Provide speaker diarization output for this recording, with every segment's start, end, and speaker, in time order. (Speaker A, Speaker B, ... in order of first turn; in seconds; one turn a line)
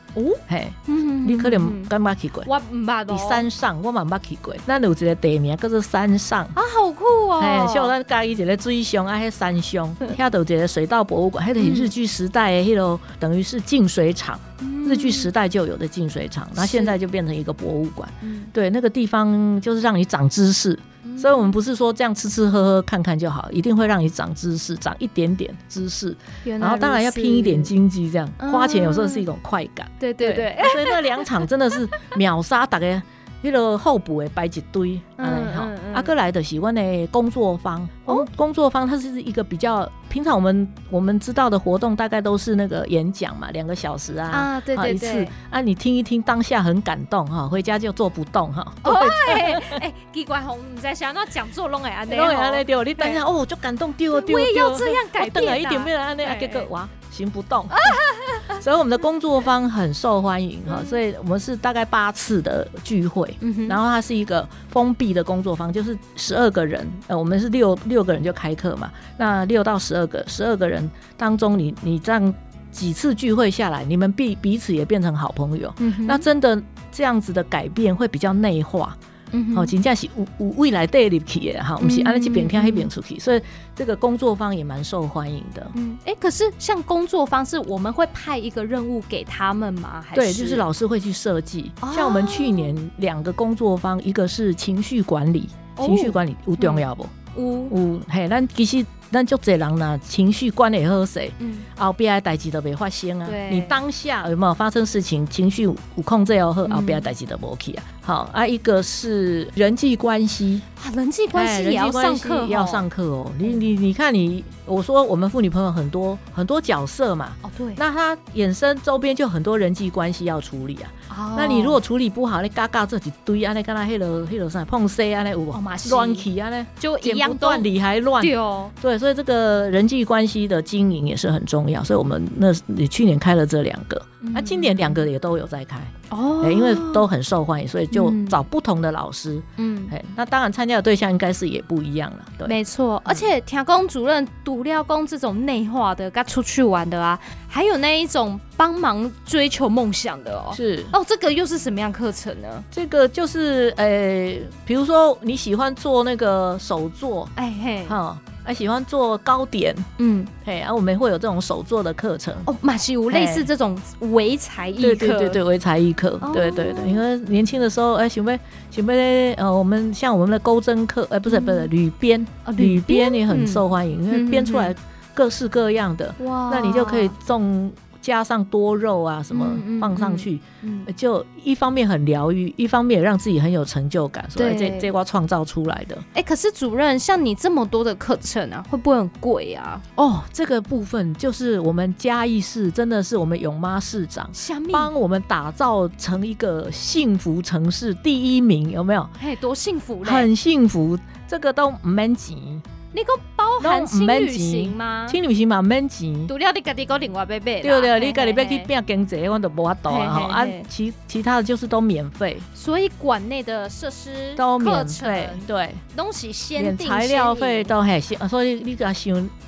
Speaker A: 0.1-1.9
Speaker B: 0.5-2.5
Speaker A: 2.4-3.5
Speaker B: 3.1-6.5
Speaker A: 6.5-7.9
Speaker B: 7.4-49.8
Speaker A: 11.6-11.9
Speaker A: 14.6-15.3
Speaker A: 16.6-16.9
Speaker A: 18.2-18.5
Speaker A: 21.0-21.6
Speaker A: 26.4-27.7
Speaker A: 28.4-29.2
Speaker A: 30.0-32.1
Speaker A: 35.2-36.1
Speaker A: 44.3-45.3
Speaker A: 48.8-53.2
Speaker B: 52.1-79.0
Speaker A: 54.1-56.7
Speaker A: 57.7-58.6
Speaker A: 60.7-61.0
Speaker A: 63.4-63.8
Speaker A: 75.8-76.2
Speaker A: 79.3-79.7
Speaker B: 79.5-85.8
Speaker A: 81.8-82.9
Speaker A: 85.8-90.7
Speaker B: 90.1-97.1
Speaker A: 91.8-92.7
Speaker A: 95.8-97.7
Speaker B: 97.7-110.6
Speaker A: 101.4-101.7
Speaker A: 103.2-103.8
Speaker A: 106.6-107.1
Speaker A: 110.8-112.9
Speaker B: 111.3-142.6
Speaker A: 113.4-113.7
Speaker A: 117.4-117.8
Speaker A: 121.1-121.8
Speaker A: 125.5-127.7
Speaker A: 128.2-128.7
Speaker A: 134.2-135.0
Speaker A: 136.1-137.1
Speaker A: 137.9-138.4
Speaker A: 139.6-139.9
Speaker A: 142.4-152.7
Speaker B: 150.5-150.9
Speaker B: 152.7-157.3
Speaker A: 157.3-158.0
Speaker B: 157.9-159.9
Speaker A: 160.0-160.3
Speaker B: 160.4-162.5
Speaker A: 162.4-165.4
Speaker B: 163.1-163.5
Speaker B: 164.8-186.0
Speaker A: 166.2-167.0
Speaker A: 171.3-171.7
Speaker A: 172.4-174.7
Speaker A: 176.2-177.1
Speaker A: 179.3-180.9
Speaker A: 184.4-184.9
Speaker A: 186.1-189.8
Speaker B: 189.9-199.1
Speaker A: 194.3-194.9
Speaker A: 199.2-200.3
Speaker B: 200.0-202.6
Speaker A: 202.9-205.2
Speaker B: 203.6-206.3
Speaker A: 206.3-208.7
Speaker B: 207.6-212.4
Speaker A: 209.9-210.6
Speaker A: 212.5-217.8
Speaker B: 214.4-215.8
Speaker B: 216.6-219.3